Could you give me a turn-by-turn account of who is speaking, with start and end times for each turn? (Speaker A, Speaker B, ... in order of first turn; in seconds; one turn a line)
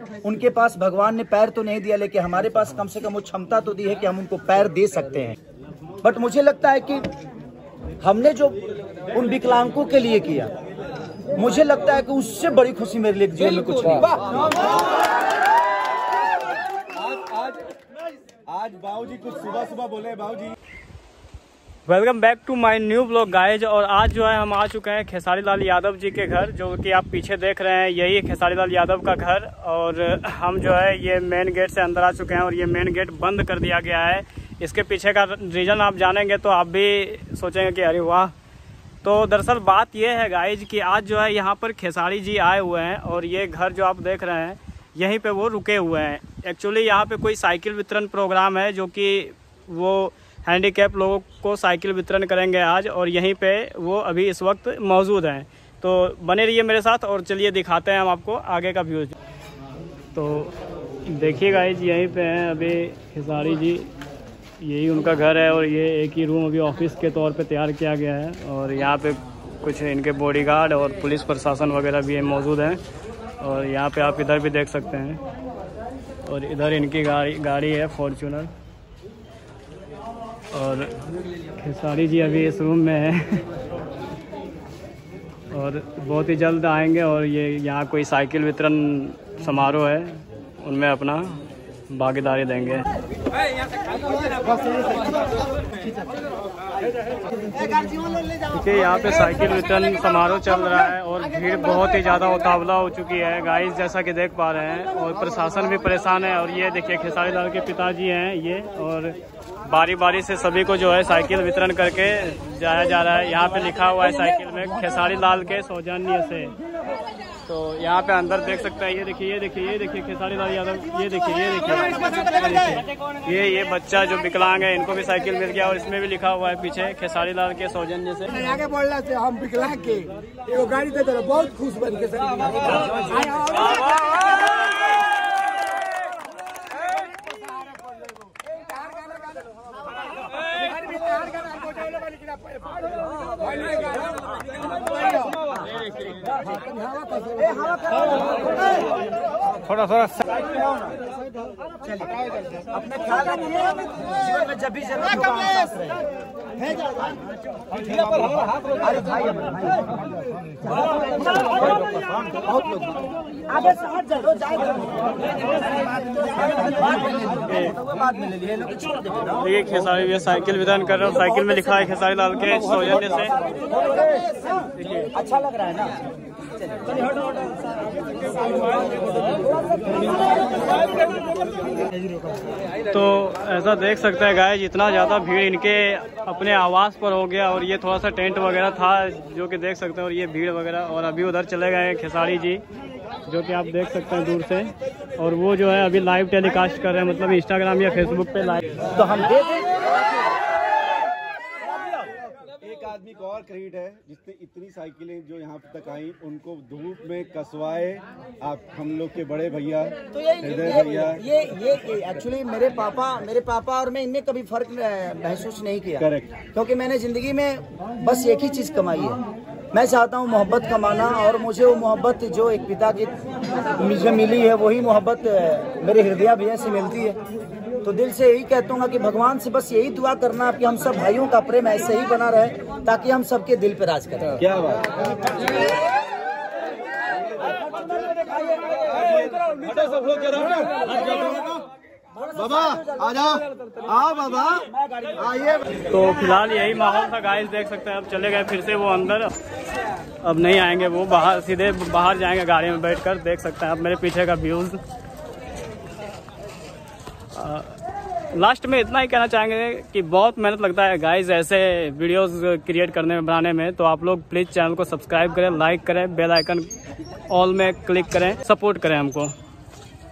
Speaker A: 0.2-5.4
Speaker A: 6.0-7.1
Speaker A: 8.0-10.5
Speaker A: 11.3-14.3
Speaker B: 16.9-17.7
Speaker B: 18.5-20.6
Speaker C: 21.9-38.3
Speaker C: 39.0-59.1
Speaker C: 60.1-60.5
Speaker C: 61.1-63.9
Speaker C: 64.6-72.8
Speaker C: 73.4-75.2
Speaker C: 76.2-78.5
Speaker C: 80.5-80.9
Speaker C: 81.6-83.5
Speaker C: 85.5-92.9
Speaker C: 98.5-116.5
Speaker C: 117.5-128.4
Speaker D: 128.3-134.2
Speaker A: 132.6-133.3
Speaker D: 140.9-142.0
Speaker A: 144.9-145.3
Speaker D: 146.7-147.3
Speaker A: 147.3-151.0
Speaker A: 151.8-156.1
Speaker A: 156.7-157.2
Speaker A: 158.8-160.0
Speaker A: 160.7-169.4
Speaker C: 167.4-167.8
Speaker C: 169.4-173.4
Speaker A: 173.4-176.0
Speaker C: 174.8-175.1
Speaker A: 176.6-177.0
Speaker A: 179.8-180.4
Speaker C: 182.9-192.6
Speaker C: 193.3-198.7
Speaker A: 198.9-200.0
Speaker B: 202.6-211.2
Speaker A: 210.1-219.2
Speaker B: 216.0-216.4
Speaker A: 219.7-223.2
Speaker A: 223.7-227.2
Speaker A: 227.8-234.5
Speaker B: 234.4-235.0
Speaker A: 237.4-245.8
Speaker C: 245.9-249.3
Speaker C: 250.2-254.8
Speaker C: 257.3-257.8
Speaker C: 258.3-266.7
Speaker C: 267.3-269.3